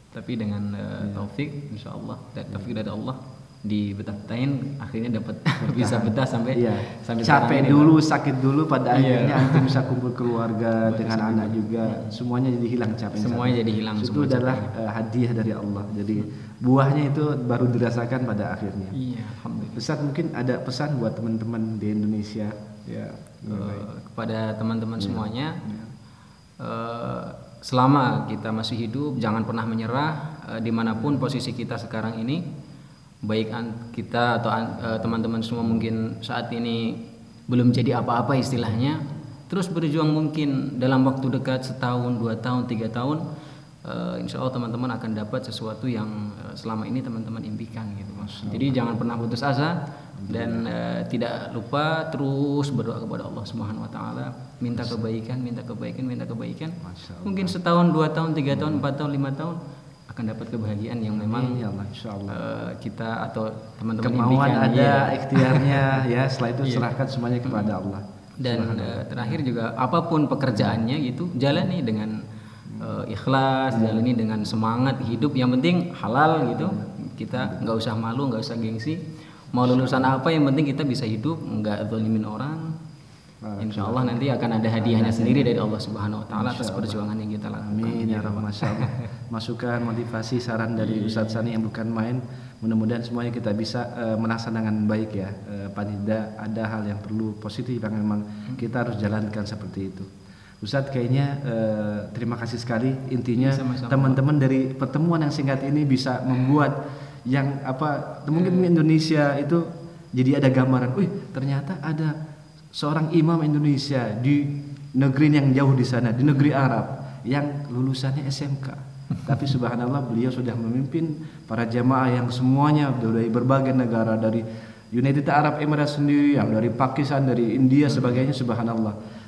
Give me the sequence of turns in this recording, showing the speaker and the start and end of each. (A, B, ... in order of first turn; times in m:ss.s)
0:00.1-0:08.0 A
0:01.0-0:01.3 B
0:02.5-0:02.9 B
0:05.6-0:19.0 B
0:08.9-0:09.9 A
0:10.8-0:12.2 A
0:13.1-0:14.8 A
0:18.9-0:19.8 A
0:19.8-0:23.9 B
0:23.5-0:25.6 A
0:25.0-0:25.9 B
0:26.6-0:32.4 A
0:31.0-0:31.2 B
0:33.2-0:37.0 A
0:37.5-0:43.2 A
0:43.8-0:49.8 A
0:48.2-0:48.8 B
0:50.2-0:50.7 B
0:50.3-0:59.6 A
0:56.8-0:57.6 B
0:58.5-0:58.8 B
1:00.1-1:01.6 A
1:01.2-1:02.4 B
1:02.3-1:06.0 A
1:04.0-1:09.4 B
1:06.6-1:06.9 A
1:07.4-1:07.8 A
1:08.4-1:12.2 A
1:10.5-1:10.8 B
1:12.7-1:13.0 B
1:12.8-1:19.0 A
1:13.7-1:14.1 B
1:16.5-1:17.8 B
1:19.5-1:22.6 A
1:19.6-1:20.2 B
1:23.4-1:25.7 B
1:23.6-1:29.1 A
1:26.3-1:27.0 B
1:27.5-1:40.1 B
1:30.8-1:31.5 A
1:40.6-1:52.1 B
1:43.4-1:44.2 A
1:48.3-1:48.7 A
1:52.8-2:09.0 B
2:07.9-2:08.2 A